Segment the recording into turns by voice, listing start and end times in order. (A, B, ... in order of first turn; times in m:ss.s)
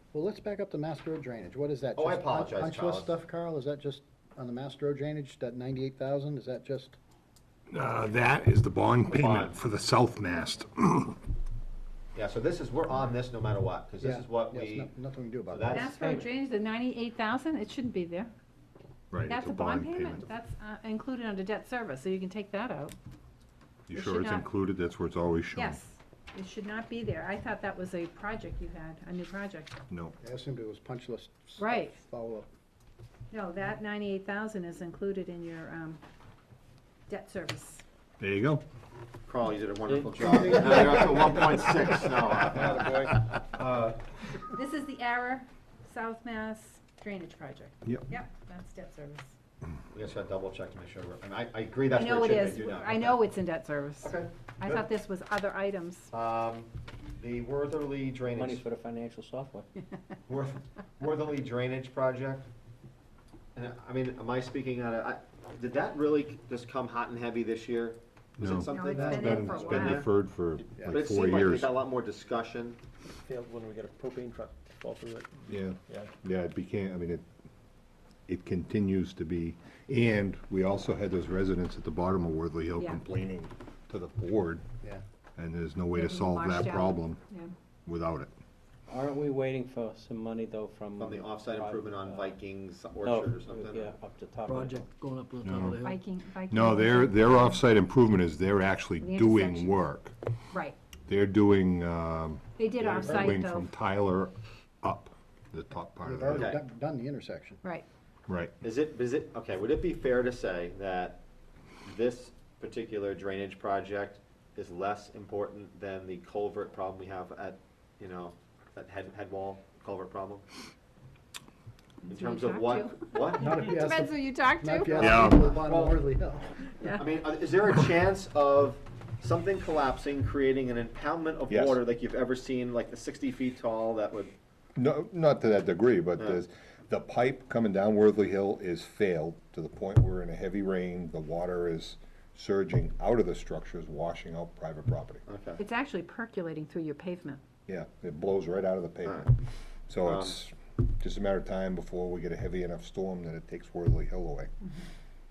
0:00.1-0:07.0 A
0:01.9-0:03.1 B
0:07.7-0:11.2 C
0:09.1-0:09.6 B
0:12.1-0:14.9 B
0:14.0-0:16.0 A
0:15.5-0:15.9 B
0:15.7-0:18.3 D
0:19.1-0:20.3 C
0:19.2-0:23.0 D
0:23.9-0:25.8 C
0:23.9-0:24.5 D
0:25.5-0:29.8 D
0:29.9-0:30.2 C
0:30.2-0:32.5 A
0:31.6-0:32.0 D
0:33.3-0:36.0 D
0:37.1-0:37.8 D
0:38.2-0:38.6 C
0:39.2-0:44.1 B
0:39.9-0:40.2 E
0:44.5-0:49.3 D
0:49.9-0:53.2 B
0:51.9-0:56.1 D
0:54.0-0:54.8 B
0:56.1-0:58.6 B
0:58.3-0:59.7 E
1:00.3-1:02.5 B
1:03.5-1:10.1 B
1:08.4-1:11.7 C
1:08.7-1:10.1 D
1:08.9-1:09.3 A
1:10.9-1:12.8 B
1:13.1-1:16.1 F
1:15.5-1:17.2 C
1:18.3-1:24.6 C
1:25.4-1:27.2 C
1:25.9-1:27.5 D
1:27.8-1:28.3 C
1:28.9-1:32.3 E
1:31.0-1:33.9 B
1:33.0-1:36.0 E
1:35.4-1:35.8 C
1:35.8-1:37.6 D
1:36.5-1:40.1 C
1:39.0-1:39.8 D
1:41.1-1:46.6 C
1:42.6-1:43.7 D
1:42.8-1:43.2 B
1:46.0-1:47.6 A
1:46.3-1:46.6 B
1:48.3-1:48.5 C
1:48.6-1:51.2 B
1:51.8-2:00.4 B
2:02.0-2:05.4 D
2:02.1-2:03.8 B
2:03.3-2:06.6 A
2:05.0-2:05.4 C
2:05.0-2:06.1 B
2:06.8-2:07.0 D
2:06.9-2:14.3 B
2:11.5-2:11.8 C
2:14.8-2:25.2 C
2:25.2-2:25.6 B
2:25.6-2:27.4 D
2:27.7-2:29.4 C
2:29.9-2:34.5 C
2:30.0-2:30.4 B